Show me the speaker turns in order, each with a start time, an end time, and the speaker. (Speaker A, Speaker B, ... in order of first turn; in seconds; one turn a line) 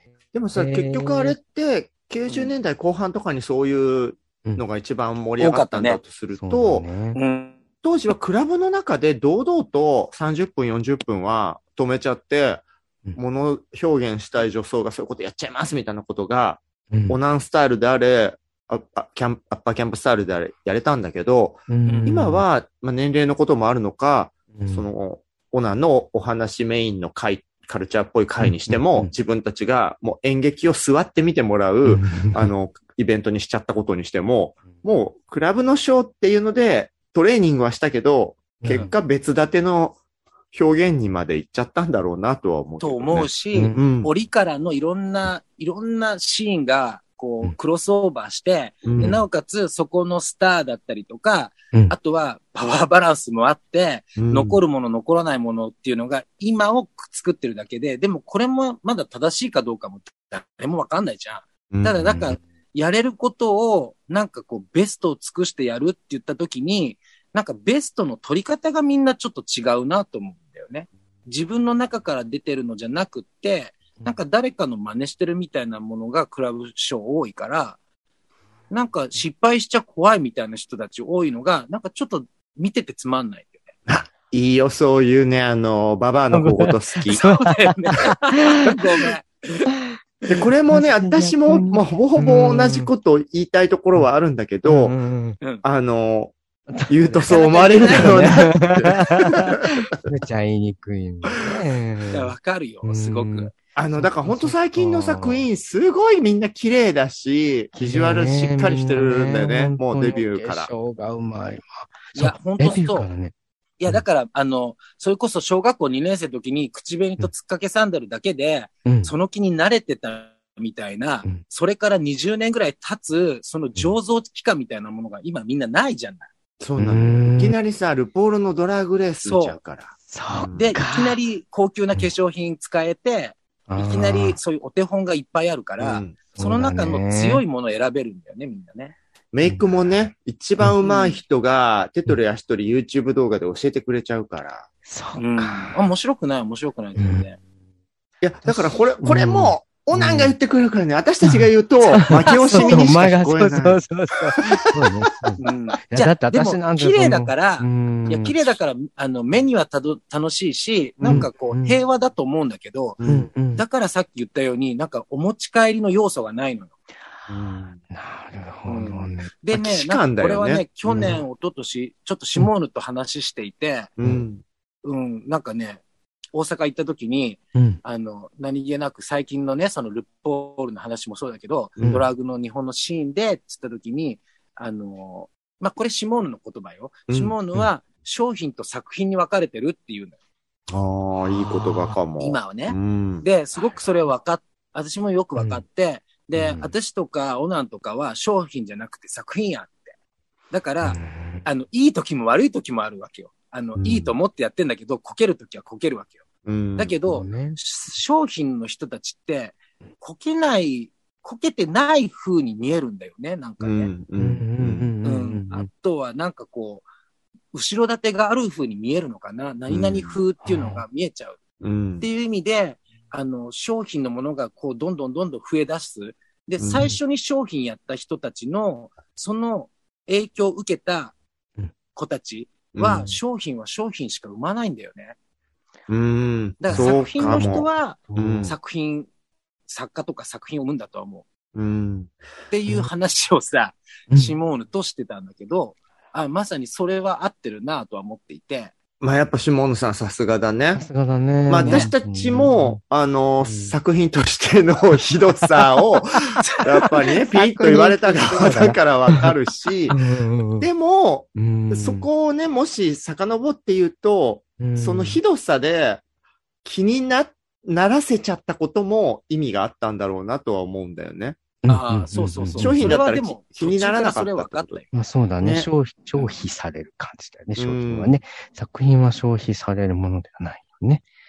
Speaker A: 0.3-6.9
Speaker B: 0.5-1.4
Speaker C: 5.4-6.0
Speaker B: 6.3-7.2
Speaker C: 7.1-7.6
Speaker A: 7.8-12.6
Speaker A: 13.2-40.0
Speaker B: 16.9-17.2
Speaker B: 21.7-22.4
Speaker C: 21.9-22.1
Speaker B: 24.6-24.9
Speaker B: 28.4-29.1
Speaker B: 31.8-32.5
Speaker B: 38.6-38.9
Speaker A: 40.5-44.1
Speaker C: 42.8-77.8
Speaker B: 43.5-43.8
Speaker A: 48.8-49.2
Speaker B: 49.0-49.2
Speaker A: 54.2-54.6
Speaker A: 61.7-62.2
Speaker B: 62.1-62.3
Speaker C: 78.7-83.7
Speaker A: 83.9-87.3
Speaker B: 86.3-88.8
Speaker C: 87.1-89.7
Speaker B: 89.7-90.0
Speaker A: 90.3-94.9
Speaker B: 90.7-92.9
Speaker B: 94.6-95.4
Speaker A: 95.6-96.3
Speaker B: 96.7-102.3
Speaker A: 96.9-100.1
Speaker C: 97.3-98.5
Speaker C: 102.1-103.5
Speaker B: 102.8-105.5
Speaker A: 103.8-110.7
Speaker B: 107.7-113.3
Speaker C: 112.1-113.1
Speaker C: 113.8-126.3
Speaker B: 118.8-119.1
Speaker A: 126.6-130.8
Speaker B: 126.8-127.5
Speaker C: 129.2-129.6
Speaker B: 130.1-131.2
Speaker C: 130.5-138.9
Speaker B: 133.7-134.4
Speaker A: 135.8-136.2
Speaker B: 136.3-137.4
Speaker A: 139.3-144.7
Speaker C: 140.8-141.2
Speaker B: 144.8-145.8
Speaker C: 145.2-147.4
Speaker B: 147.0-147.3
Speaker A: 148.2-153.8
Speaker B: 148.4-150.3
Speaker C: 151.8-153.0
Speaker B: 152.0-158.5
Speaker A: 154.8-155.3
Speaker C: 155.4-163.0
Speaker A: 161.0-161.3
Speaker B: 161.0-161.8
Speaker A: 163.0-163.3
Speaker B: 163.0-163.6
Speaker C: 163.6-166.8
Speaker A: 167.3-167.8
Speaker B: 167.4-169.3
Speaker C: 168.7-173.9
Speaker A: 169.5-171.2
Speaker B: 170.9-171.2
Speaker A: 174.0-174.4
Speaker C: 174.8-175.8
Speaker C: 176.3-190.1
Speaker A: 187.1-187.3
Speaker A: 190.7-193.2
Speaker B: 191.2-192.0
Speaker C: 192.2-199.9
Speaker B: 195.4-195.6
Speaker B: 196.3-196.7
Speaker C: 200.5-206.2
Speaker B: 200.8-201.4
Speaker A: 206.4-206.9
Speaker C: 206.8-213.9
Speaker B: 207.1-207.6
Speaker A: 213.6-214.9
Speaker B: 214.2-215.7
Speaker C: 215.0-216.8
Speaker C: 217.5-221.4
Speaker A: 219.7-220.1
Speaker B: 220.4-220.8
Speaker A: 221.6-222.1
Speaker C: 222.0-231.1
Speaker A: 226.6-226.9
Speaker C: 231.9-235.1
Speaker A: 232.7-233.1
Speaker A: 235.9-238.6
Speaker C: 236.6-239.1
Speaker B: 236.7-238.5
Speaker C: 239.7-241.2
Speaker A: 241.5-242.2
Speaker C: 242.5-248.7
Speaker B: 244.1-244.4
Speaker A: 249.0-250.8
Speaker B: 250.7-252.8
Speaker A: 251.5-260.0
Speaker C: 251.6-251.9
Speaker B: 253.4-253.8
Speaker B: 256.4-259.3
Speaker B: 259.9-260.7
Speaker A: 260.6-266.0
Speaker B: 261.3-262.1
Speaker B: 264.6-265.2
Speaker A: 266.6-271.4
Speaker B: 271.6-272.9
Speaker C: 271.7-274.9
Speaker A: 272.6-274.8
Speaker B: 274.9-281.0
Speaker A: 275.4-275.7
Speaker A: 277.6-278.1